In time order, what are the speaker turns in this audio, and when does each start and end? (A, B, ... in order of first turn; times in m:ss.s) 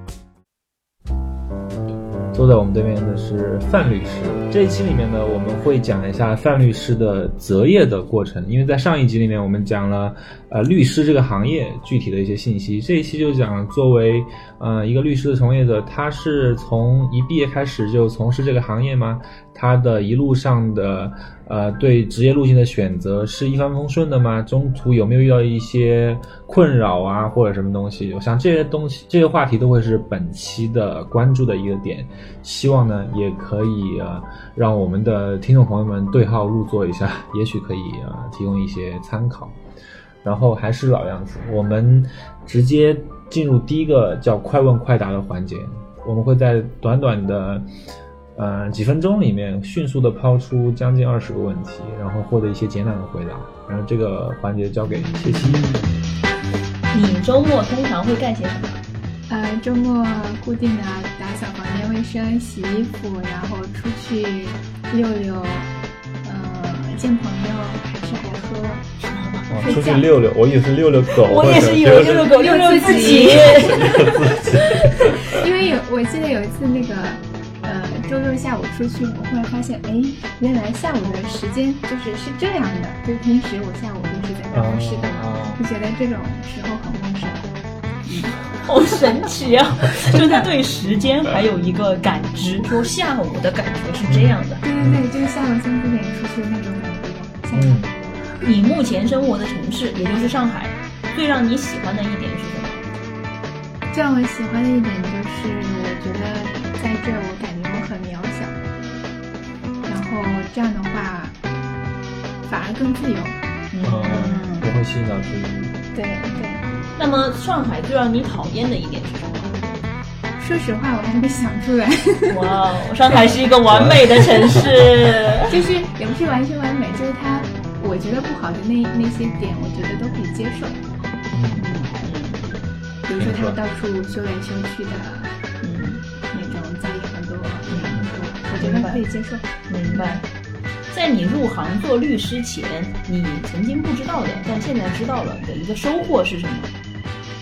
0:02.3-0:39.6 A
0:40.2-0:47.7 A
0:48.3-0:55.8 A
0:56.9-0:58.8 B
0:59.3-1:05.7 C
1:06.2-1:08.9 C
1:09.0-1:09.8 B
1:09.5-1:12.4 A
1:09.6-1:10.1 C
1:11.1-1:15.2 B
1:12.3-1:14.1 C
1:13.1-1:15.2 A
1:15.2-1:27.4 C
1:24.5-1:25.6 A
1:28.0-1:28.4 C
1:28.6-1:34.6 B
1:30.1-1:30.5 C
1:34.0-1:35.0 A
1:34.6-1:37.9 C
1:37.5-1:37.9 A
1:38.4-1:42.8 B
1:43.9-1:48.5 C
1:49.8-1:51.4 C
1:52.4-1:53.4 C
1:53.7-1:54.4 B
1:53.8-1:55.8 A
1:54.1-1:54.7 C
1:55.9-1:56.6 C
1:56.4-1:59.6 B
2:00.4-2:02.6 C
2:02.3-2:05.6 B
2:03.0-2:05.1 A
2:05.5-2:10.8 C
2:11.3-2:11.7 A
2:11.5-2:11.9 C
2:12.0-2:12.6 B
2:13.0-2:15.3 C
2:13.1-2:13.6 A
2:15.6-2:16.1 B
2:16.3-2:20.2 C
2:17.7-2:18.0 B
2:17.9-2:18.2 A
2:18.6-2:19.0 B
2:19.7-2:20.2 B
2:20.9-2:26.7 B